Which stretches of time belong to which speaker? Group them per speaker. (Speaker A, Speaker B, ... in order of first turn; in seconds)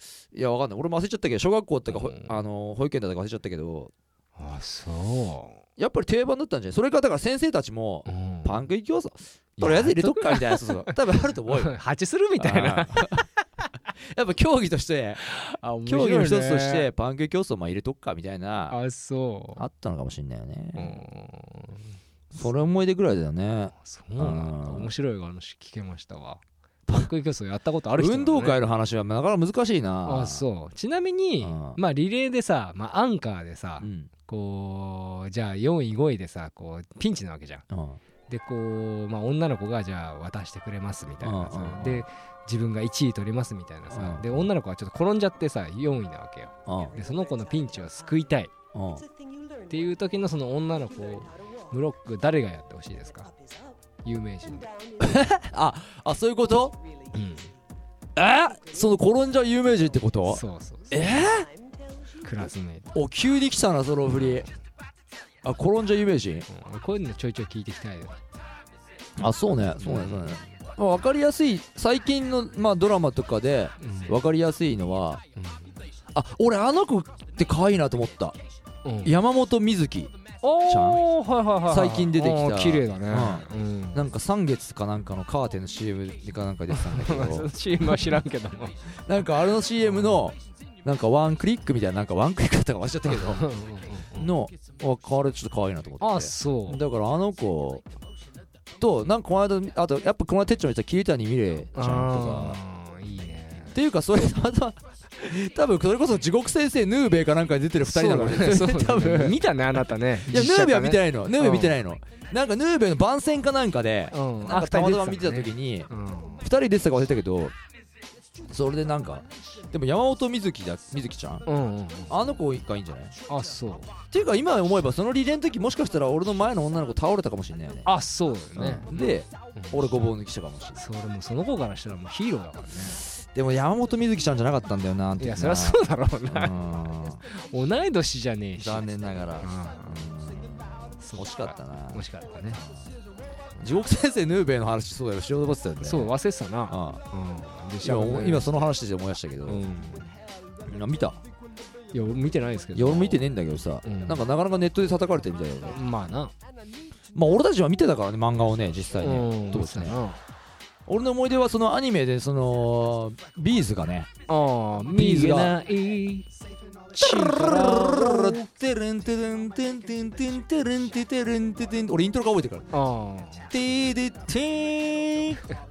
Speaker A: 0.3-3.9, 5.8-11.7, 12.4-13.2, 14.0-18.8, 19.6-21.0, 22.3-24.9, 28.0-30.4, 31.4-31.8, 33.8-34.1, 37.7-38.0, 41.2-42.1, 43.9-44.5, 46.7-47.0, 48.7-49.1, 55.0-56.8, 58.2-61.5, 62.9-64.5, 65.4-66.5, 69.2-75.2, 76.1-78.4, 79.0-80.1, 80.6-81.1, 81.7-88.2, 89.0-93.5, 94.2-97.8, 98.8-102.6, 103.7-109.5, 110.2-115.9, 116.4-117.5, 118.5-121.5, 122.1-123.1, 124.1-127.9, 128.6-130.9, 133.1-137.2, 138.6-142.9, 143.6-146.2, 146.7-147.0, 147.8-149.7, 150.7-151.2, 152.7-155.8, 157.1-160.0, 160.9-164.1, 164.8-165.6, 166.9-172.7, 173.5-175.5
Speaker B: 1.9-2.4, 4.4-5.6, 8.1-8.6, 9.6-13.3, 15.2-16.9, 18.7-19.6, 20.8-21.9, 23.8-28.6, 30.1-37.6, 38.3-48.5, 49.7-53.3, 54.0-54.7, 57.1-57.5, 60.3-61.1, 62.2-63.0, 66.5-68.2, 69.8-70.5, 73.8-74.2, 75.4-75.8, 78.8-79.1, 80.4-84.1, 86.7-88.8, 89.9-90.2, 93.1-94.3, 96.0-96.8, 101.8-103.8, 107.8-111.8, 114.1-116.4, 121.5-122.2, 123.3-124.0, 127.8-129.9, 130.8-133.0, 135.2-136.6, 137.2-140.1, 141.0-142.6, 145.8-148.5, 149.5-150.1, 151.9-153.2, 153.8-154.2, 155.7-156.3, 159.0-160.2, 164.3-166.3, 166.9-168.4, 172.7-173.5